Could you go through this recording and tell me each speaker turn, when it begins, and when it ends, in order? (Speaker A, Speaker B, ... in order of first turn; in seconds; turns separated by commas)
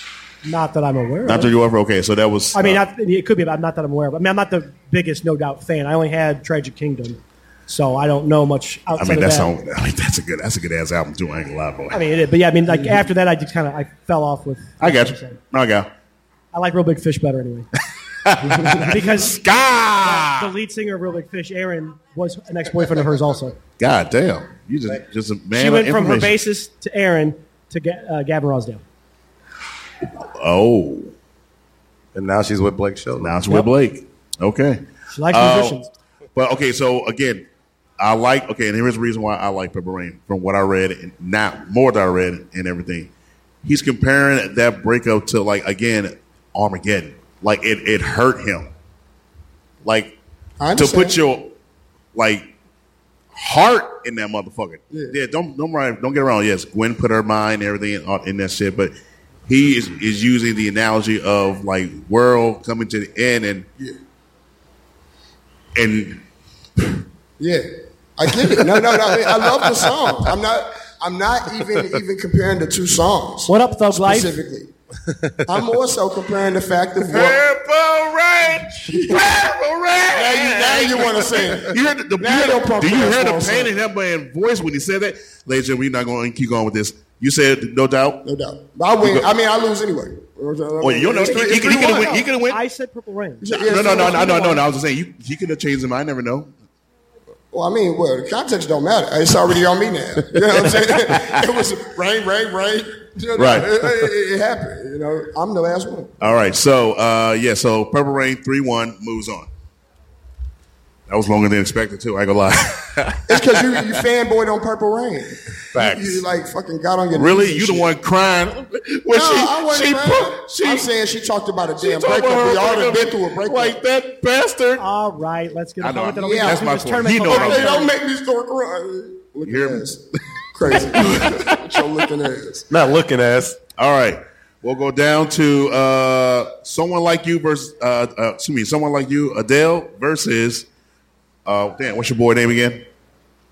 Speaker A: 0.4-1.5, Speaker B: 1.2-2.8, Speaker A: 2.5-9.5, Speaker B: 8.9-12.0, Speaker A: 11.9-15.4, Speaker B: 14.8-15.9, Speaker A: 16.5-17.7, Speaker B: 18.2-20.5, Speaker A: 18.8-19.4, Speaker A: 20.0-23.6, Speaker B: 23.8-26.4, Speaker A: 25.5-28.8, Speaker B: 30.2-31.1, Speaker C: 32.1-33.4, Speaker B: 33.2-35.8, Speaker A: 35.1-35.9, Speaker B: 36.3-37.5, Speaker B: 38.0-43.1, Speaker B: 43.6-48.7, Speaker B: 49.8-50.1, Speaker D: 50.6-51.2, Speaker B: 50.7-51.5, Speaker B: 52.1-52.5, Speaker B: 53.3-58.9, Speaker D: 54.9-55.2, Speaker B: 59.5-63.7, Speaker B: 65.7-66.2, Speaker D: 67.4-74.7, Speaker A: 73.5-74.3, Speaker D: 75.5-77.4, Speaker B: 77.1-88.2, Speaker D: 78.7-79.3, Speaker D: 80.1-83.7, Speaker D: 88.2-92.2, Speaker B: 89.0-89.3, Speaker B: 90.8-92.6, Speaker A: 91.2-94.6, Speaker D: 93.4-94.5, Speaker B: 93.5-96.5, Speaker D: 97.5-106.1, Speaker B: 100.5-101.4, Speaker B: 103.3-103.8, Speaker B: 106.2-109.5, Speaker B: 111.1-113.9, Speaker D: 113.3-117.9, Speaker C: 115.7-116.2, Speaker B: 117.1-120.9, Speaker D: 119.1-123.8, Speaker B: 121.8-124.8, Speaker A: 124.8-127.9, Speaker B: 125.8-127.8, Speaker D: 126.2-126.7, Speaker D: 127.2-130.0, Speaker B: 129.4-129.9, Speaker D: 130.5-132.7, Speaker B: 130.6-131.6, Speaker C: 132.7-133.6, Speaker B: 133.8-140.7, Speaker B: 141.4-142.8